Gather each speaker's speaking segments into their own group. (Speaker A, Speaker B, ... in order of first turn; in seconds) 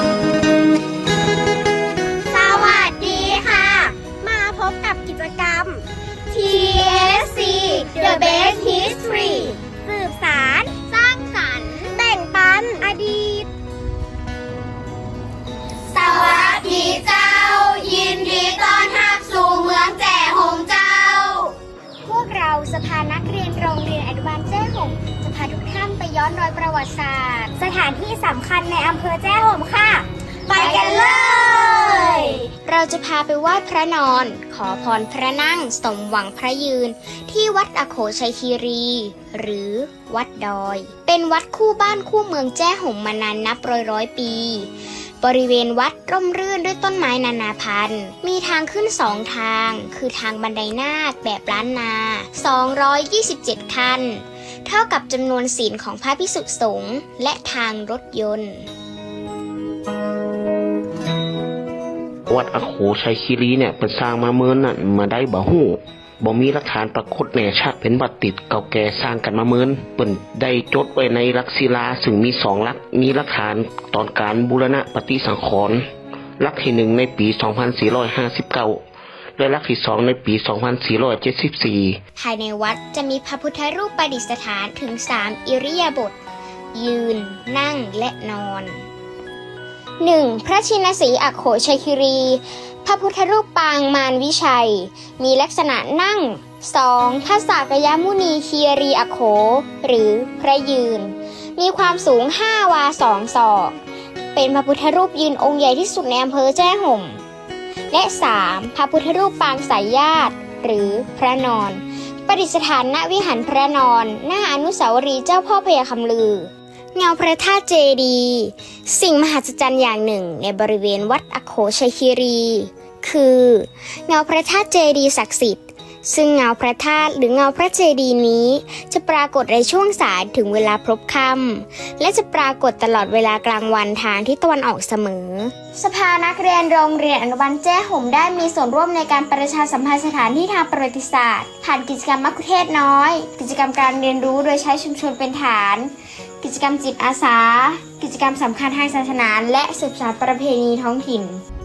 Speaker A: 2.3-10.7, 11.9-13.5, 15.9-17.1, 27.6-32.4
Speaker B: 7.8-9.5, 10.7-11.9, 15.9-21.5, 22.0-27.7, 30.5-31.9, 32.6-58.7, 82.2-86.2, 86.7-88.8, 90.0-103.8, 104.3-107.2, 107.9-151.4
Speaker C: 62.3-75.8, 76.4-78.8, 79.4-82.0